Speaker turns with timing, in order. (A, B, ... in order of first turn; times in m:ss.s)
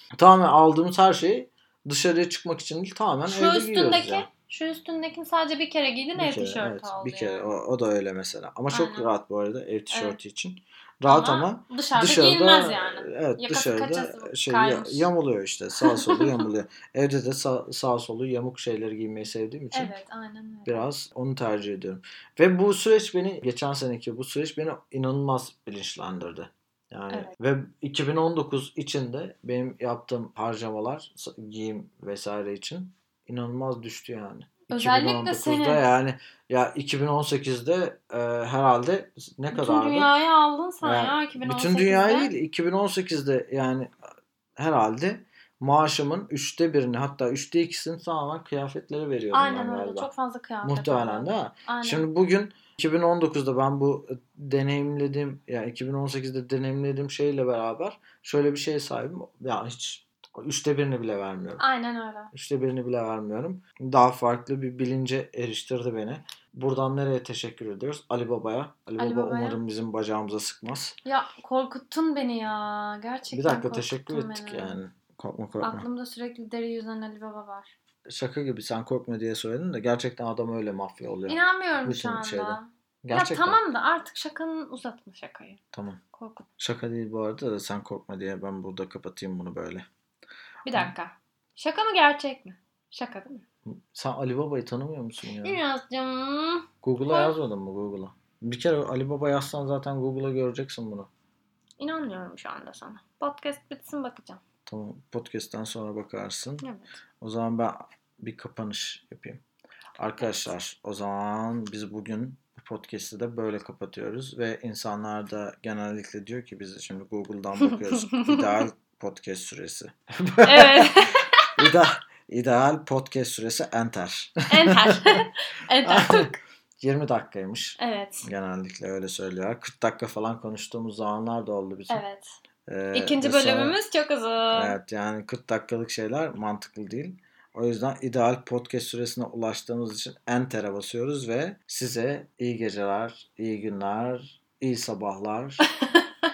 0:00.2-0:04.3 A
0:03.3-0:07.5 B
0:06.2-0:19.9 A
0:08.7-0:09.1 B
0:09.9-0:10.2 B
0:11.1-0:15.1 B
0:15.8-0:16.4 B
0:19.7-0:20.9 B
0:20.7-0:40.1 A
0:34.7-0:35.8 B
0:39.5-0:42.3 B
0:40.8-0:43.9 A
0:44.6-0:50.1 A
0:49.3-0:52.0 B
0:50.6-1:01.6 A
1:01.6-1:02.3 B
1:02.3-1:11.0 A
1:09.0-1:09.6 B
1:11.0-1:14.8 B
1:13.3-1:15.8 A
1:15.6-1:17.7 B
1:18.1-1:23.6 A
1:21.3-1:25.6 B
1:25.7-1:26.0 A
1:26.1-1:26.5 B
1:26.6-1:29.9 A
1:30.7-1:33.4 B
1:33.7-1:35.6 A
1:35.4-1:37.3 B
1:36.8-1:41.1 A
1:41.8-1:44.4 B
1:44.7-1:46.7 A
1:47.2-1:49.4 A
1:50.0-2:01.0 A
1:50.2-1:50.5 B
1:57.6-1:58.5 B
2:00.4-2:01.5 B
2:01.6-2:05.2 A
2:04.5-2:06.4 B
2:05.8-2:12.0 A
2:07.8-2:08.3 B
2:11.9-2:12.4 B
2:12.7-2:13.8 A
2:12.9-2:14.8 B
2:14.5-2:25.6 A